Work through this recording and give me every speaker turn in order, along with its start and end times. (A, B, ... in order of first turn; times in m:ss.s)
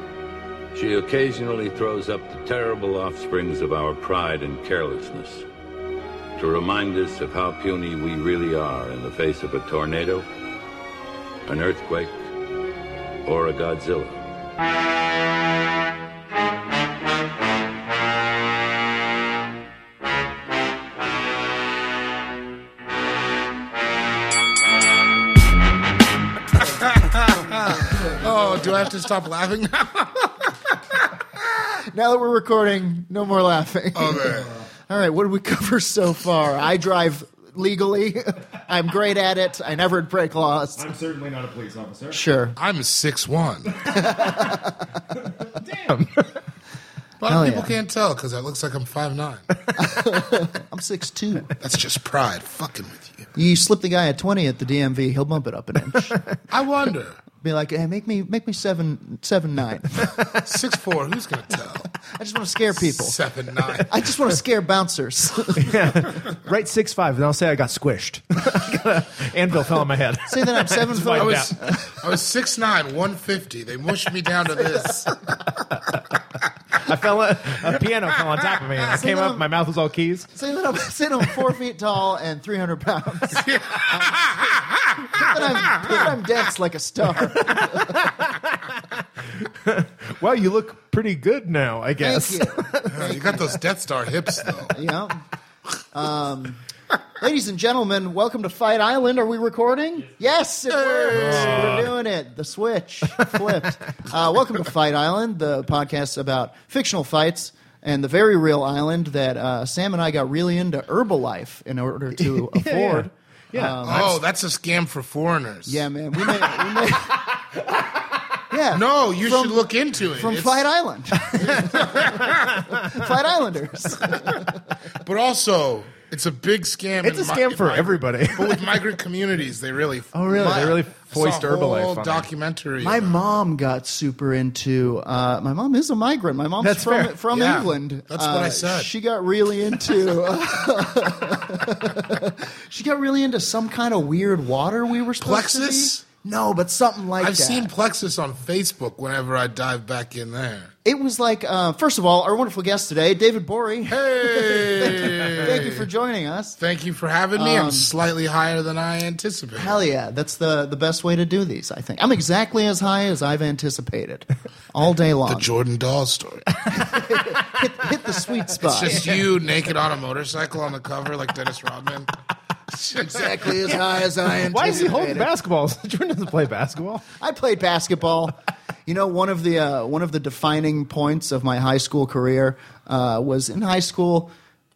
0:00.7-0:05.5 A
0:06.4-0:10.3 A
0:11.4-0:12.3 A
0:13.2-0:14.3 A
0:26.6-0:30.8 B
0:31.8-0:40.9 C
0:33.9-0:34.6 B
0:40.8-0:42.2 D
0:42.1-0:42.6 C
0:42.6-0:43.7 B
0:43.8-0:44.5 D
0:43.8-0:45.0 C
0:45.4-0:46.3 D
0:47.2-0:49.5 B
0:47.2-0:47.8 C
0:49.7-0:50.0 D
0:49.8-0:51.5 C
0:51.6-0:53.3 B
0:53.4-0:56.2 C
0:56.5-0:57.2 B
0:57.4-1:00.3 C
1:00.4-1:01.9 B
1:02.1-1:03.2 C
1:02.8-1:04.0 B
1:03.8-1:05.8 C
1:05.6-1:11.6 D
1:10.3-1:11.9 C
1:11.2-1:15.3 B
1:14.5-1:15.1 C
1:16.8-1:20.3 D
1:18.9-1:19.5 C
1:20.3-1:24.4 C
1:23.3-1:26.1 B
1:25.0-1:28.1 C
1:27.4-1:33.0 D
1:32.0-1:33.6 C
1:32.9-1:34.8 B
1:34.7-1:35.2 C
1:35.9-1:36.6 C
1:37.2-1:54.1 C
1:41.1-1:41.9 B
1:41.5-1:41.9 D
1:52.2-1:54.1 D
1:53.8-1:55.8 B
1:55.7-1:57.2 C
1:57.1-1:58.0 D
1:58.5-2:02.1 C
1:58.7-2:00.6 B
2:01.4-2:02.6 B
2:02.2-2:03.0 D
2:02.7-2:04.6 C
2:05.0-2:13.2 B
2:07.0-2:08.6 D
2:10.1-2:12.3 D
2:10.3-2:10.8 C
2:12.8-2:27.7 C
2:16.6-2:17.0 D
2:16.7-2:18.9 B
2:25.2-2:26.0 B
2:27.2-2:30.7 B
2:30.8-2:36.6 C
2:33.9-2:35.9 B
2:36.6-2:39.8 B
2:37.4-2:37.9 C
2:39.6-2:45.5 C
2:45.3-2:46.5 B
2:46.6-2:49.0 C
2:48.6-2:52.1 B
2:48.9-2:49.2 D
2:52.7-2:53.5 B
2:53.1-2:55.3 C
2:54.2-2:57.0 D
2:57.2-3:04.4 C